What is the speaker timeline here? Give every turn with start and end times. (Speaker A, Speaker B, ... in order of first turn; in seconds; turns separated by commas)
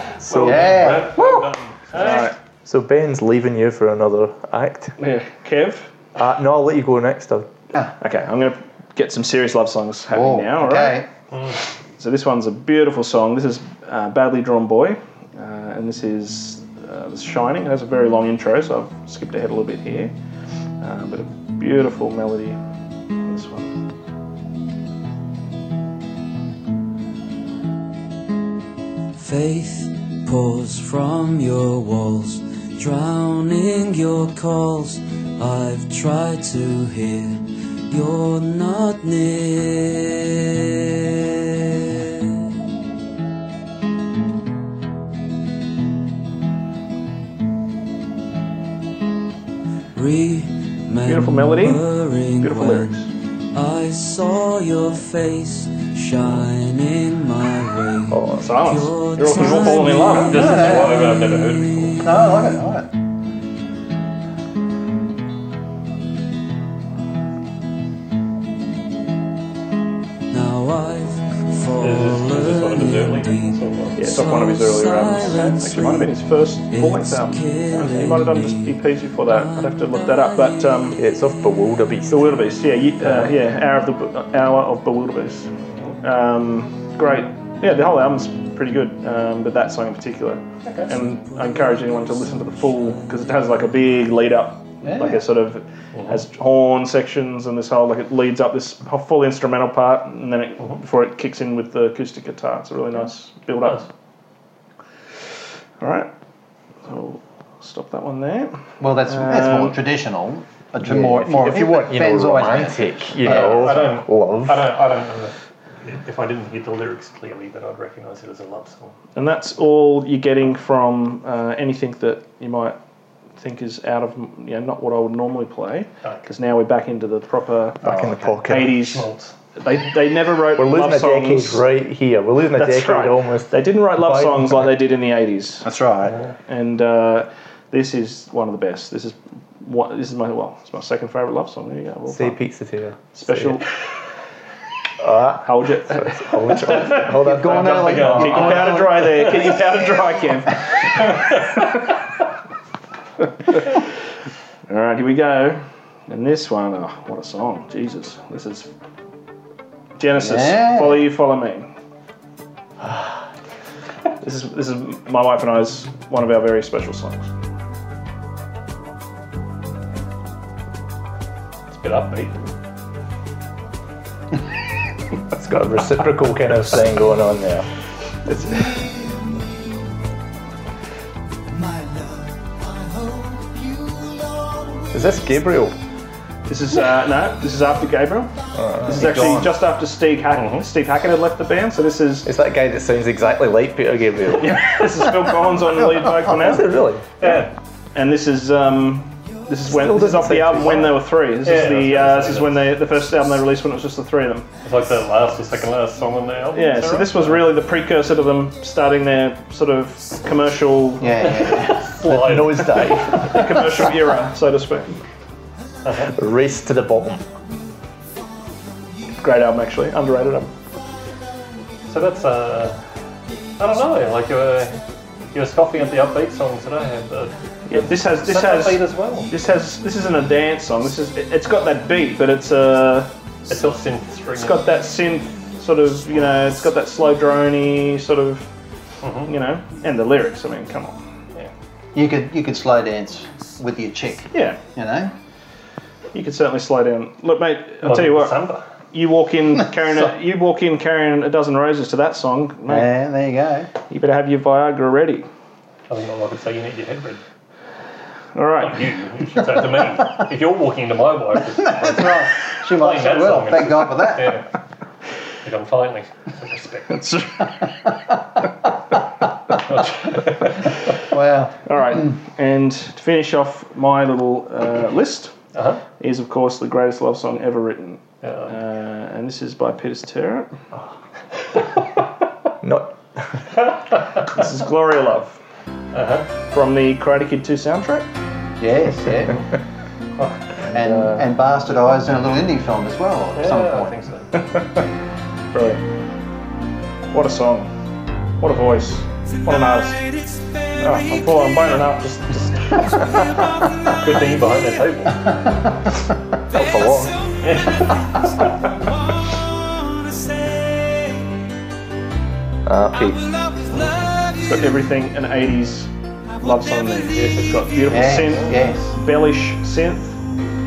Speaker A: 0.2-1.1, Speaker B: 0.2-2.3, Speaker C: 0.4-1.3, Speaker D: 1.9-2.3, Speaker A: 2.1-5.0, Speaker D: 5.0-5.9, Speaker A: 6.2-7.5, Speaker D: 8.0-11.0, Speaker C: 10.1-11.1, Speaker B: 11.3-11.6, Speaker D: 12.0-20.1, Speaker D: 20.8-22.6, Speaker D: 23.3-23.7, Speaker E: 29.1-41.1, Speaker E: 49.9-62.2, Speaker D: 51.0-51.8, Speaker D: 52.4-53.1, Speaker A: 58.1-58.5, Speaker D: 58.4-60.7, Speaker B: 60.1-62.0, Speaker C: 60.2-61.1, Speaker C: 62.0-62.9, Speaker E: 70.3-81.0, Speaker B: 71.8-74.0, Speaker D: 74.0-81.0, Speaker A: 81.0-82.4, Speaker D: 82.1-85.5, Speaker D: 86.0-103.9, Speaker B: 90.6-90.9, Speaker C: 94.8-95.2, Speaker D: 105.8-106.1, Speaker D: 106.8-109.8, Speaker C: 108.8-113.8, Speaker A: 110.8-114.7, Speaker B: 113.2-118.9, Speaker D: 119.1-122.8, Speaker D: 123.4-127.8, Speaker A: 127.8-128.8, Speaker C: 127.8-128.4, Speaker D: 128.4-131.6, Speaker B: 128.6-129.3, Speaker A: 130.6-134.7, Speaker D: 132.5-135.7, Speaker C: 135.6-136.2, Speaker B: 136.1-136.3, Speaker D: 136.5-142.4, Speaker A: 142.1-143.6, Speaker D: 143.1-143.7, Speaker A: 145.0-148.5, Speaker D: 145.4-147.1, Speaker C: 146.8-149.4, Speaker B: 147.4-149.0, Speaker D: 148.0-151.6, Speaker D: 154.7-158.7, Speaker D: 160.0-161.7, Speaker C: 160.2-161.1, Speaker D: 164.2-167.3, Speaker B: 171.7-172.3, Speaker A: 175.3-177.7, Speaker D: 178.3-178.7, Speaker A: 184.9-185.8, Speaker D: 186.5-188.3, Speaker A: 188.5-189.5, Speaker D: 188.8-192.3, Speaker B: 190.3-190.7, Speaker A: 192.2-194.8, Speaker D: 194.4-196.7, Speaker A: 196.1-197.1, Speaker B: 197.2-197.5, Speaker D: 197.9-204.5, Speaker A: 199.7-201.0, Speaker B: 201.4-202.6, Speaker B: 204.6-207.5, Speaker D: 206.5-211.3, Speaker C: 211.0-211.9, Speaker B: 211.3-213.1, Speaker A: 212.0-213.7, Speaker D: 213.2-214.9, Speaker B: 215.8-216.1, Speaker A: 216.1-217.2, Speaker D: 219.2-220.5, Speaker B: 221.9-222.8, Speaker B: 223.6-224.8, Speaker B: 225.3-229.3, Speaker D: 227.7-233.1, Speaker B: 233.5-234.7, Speaker D: 234.4-238.5, Speaker B: 239.0-239.3, Speaker D: 239.3-241.0, Speaker C: 241.9-245.1, Speaker D: 244.3-244.6, Speaker D: 246.1-252.9, Speaker B: 247.8-248.7, Speaker C: 252.7-253.7, Speaker D: 253.9-255.3, Speaker B: 255.9-257.2, Speaker D: 258.3-258.9, Speaker B: 258.6-264.5, Speaker C: 261.6-264.4, Speaker B: 265.4-267.0, Speaker D: 266.9-267.5, Speaker B: 269.6-270.6, Speaker C: 271.0-272.1, Speaker D: 271.6-275.3, Speaker B: 275.5-275.8, Speaker D: 276.0-280.5, Speaker B: 278.2-278.6, Speaker A: 282.6-283.4, Speaker D: 284.2-285.4, Speaker B: 285.9-286.3, Speaker D: 286.5-288.1, Speaker C: 288.6-289.5, Speaker C: 290.7-294.0, Speaker D: 290.8-291.2, Speaker B: 293.3-294.4, Speaker D: 295.5-295.8, Speaker D: 297.1-297.7, Speaker D: 298.4-300.0, Speaker D: 300.8-303.0, Speaker B: 303.9-305.4, Speaker A: 306.5-307.2, Speaker B: 307.4-307.9, Speaker A: 312.6-313.2, Speaker B: 313.7-314.1, Speaker D: 314.4-315.9, Speaker D: 316.4-320.2, Speaker B: 317.1-318.4, Speaker C: 317.9-319.0